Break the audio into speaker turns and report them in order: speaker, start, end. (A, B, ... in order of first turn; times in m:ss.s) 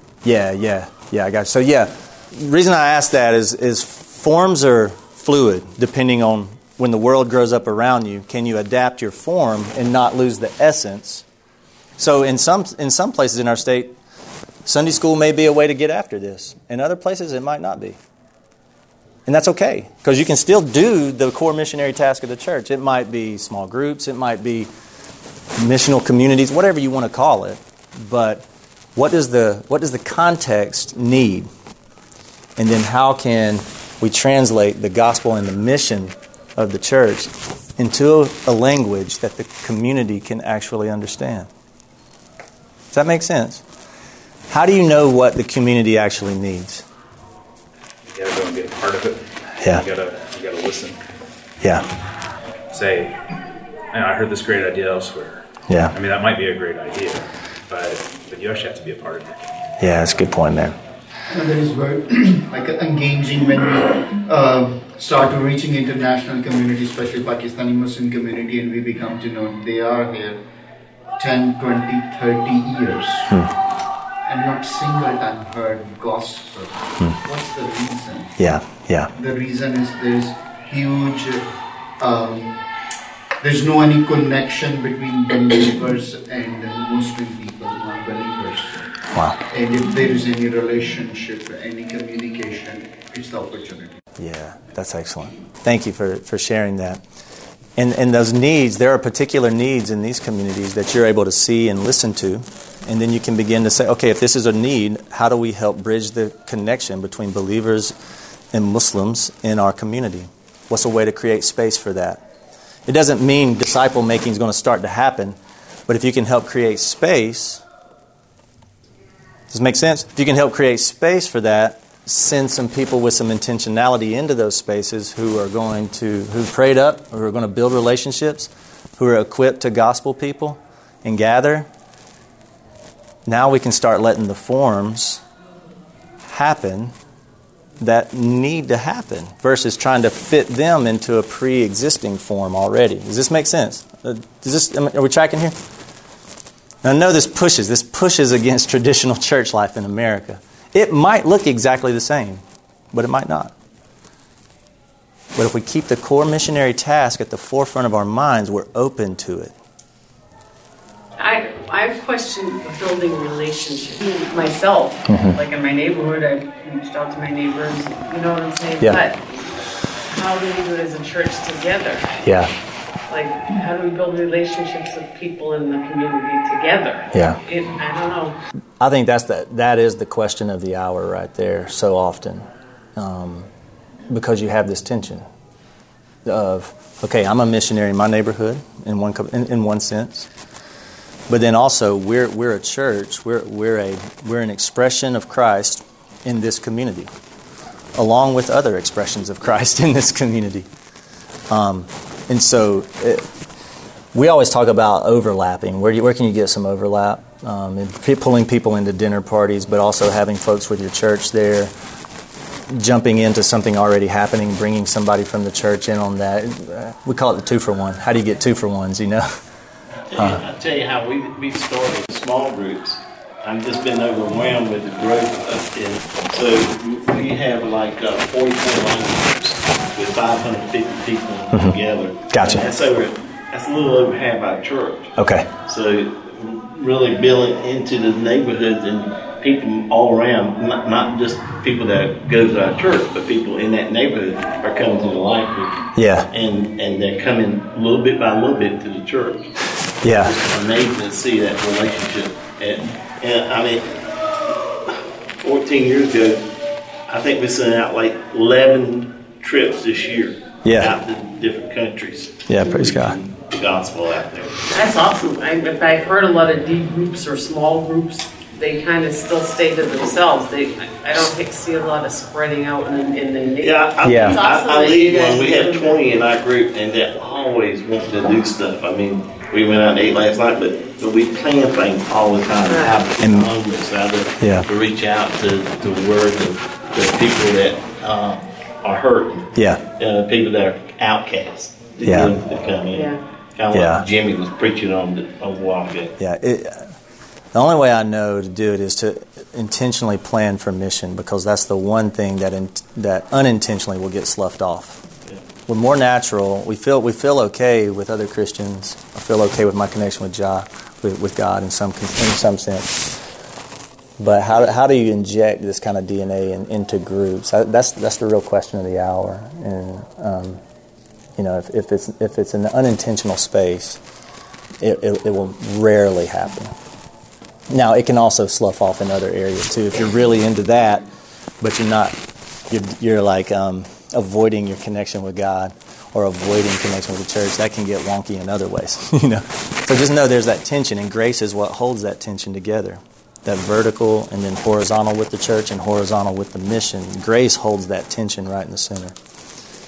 0:00.2-0:11.2 A
0:12.0-0:14.0 A
0:14.6-0:18.0 A
0:19.3-0:24.7 A
0:25.6-0:31.5 A
0:32.6-0:41.5 A
0:42.9-0:43.6 A
0:44.5-0:46.8 A
0:48.1-0:51.0 B
0:51.6-0:51.9 A
0:52.7-0:53.2 B
0:53.9-0:59.4 B
0:55.7-0:56.0 A
0:59.8-1:00.8 A
1:01.3-1:10.4 C
1:11.2-1:13.4 C
1:14.3-1:18.3 C
1:18.4-1:19.1 A
1:19.1-1:21.5 C
1:22.0-1:22.6 C
1:23.4-1:28.8 C
1:29.1-1:29.4 A
1:29.5-1:34.0 C
1:34.2-1:37.0 A
1:37.8-1:48.0 A
1:48.5-1:52.2 A
1:52.9-1:57.6 A
1:59.5-2:11.7 A
2:13.3-2:15.2 A
2:16.2-2:17.0 A
2:17.8-2:25.6 A
2:26.8-2:33.5 A
2:35.3-2:39.5 A
2:41.2-2:49.2 D
2:45.1-2:45.4 A
2:50.1-2:52.2 D
2:52.2-2:52.5 A
2:53.1-2:58.4 D
2:57.1-2:57.4 A
2:58.8-3:03.5 A
3:04.1-3:05.3 A
3:06.2-3:10.3 A
3:11.3-3:17.1 A
3:17.9-3:20.7 A
3:21.5-3:23.3 A
3:24.1-3:31.7 A
3:32.7-3:39.3 A
3:40.1-3:55.1 E
3:52.3-3:52.7 A
3:55.2-3:55.5 A
3:55.6-4:09.5 E
4:06.0-4:06.3 A
4:10.0-4:10.4 A
4:10.2-4:14.0 E
4:14.9-4:16.5 E
4:17.1-4:24.5 E
4:20.6-4:21.0 A
4:22.5-4:23.2 A
4:24.7-4:36.0 D
4:33.6-4:56.1 E
4:34.0-4:34.4 A
4:42.6-4:43.0 D
4:43.2-4:43.5 A
4:44.4-4:44.7 A
4:49.6-4:49.8 A
4:52.0-4:52.4 A
4:52.9-4:53.2 D
4:53.7-4:54.0 A
4:56.2-4:57.0 A
4:57.5-5:05.0 A
5:05.7-5:13.2 A
5:14.2-5:20.6 A
5:21.4-5:24.0 A
5:24.8-5:26.7 A
5:27.7-5:31.1 A
5:31.6-5:32.2 A
5:32.7-5:49.2 A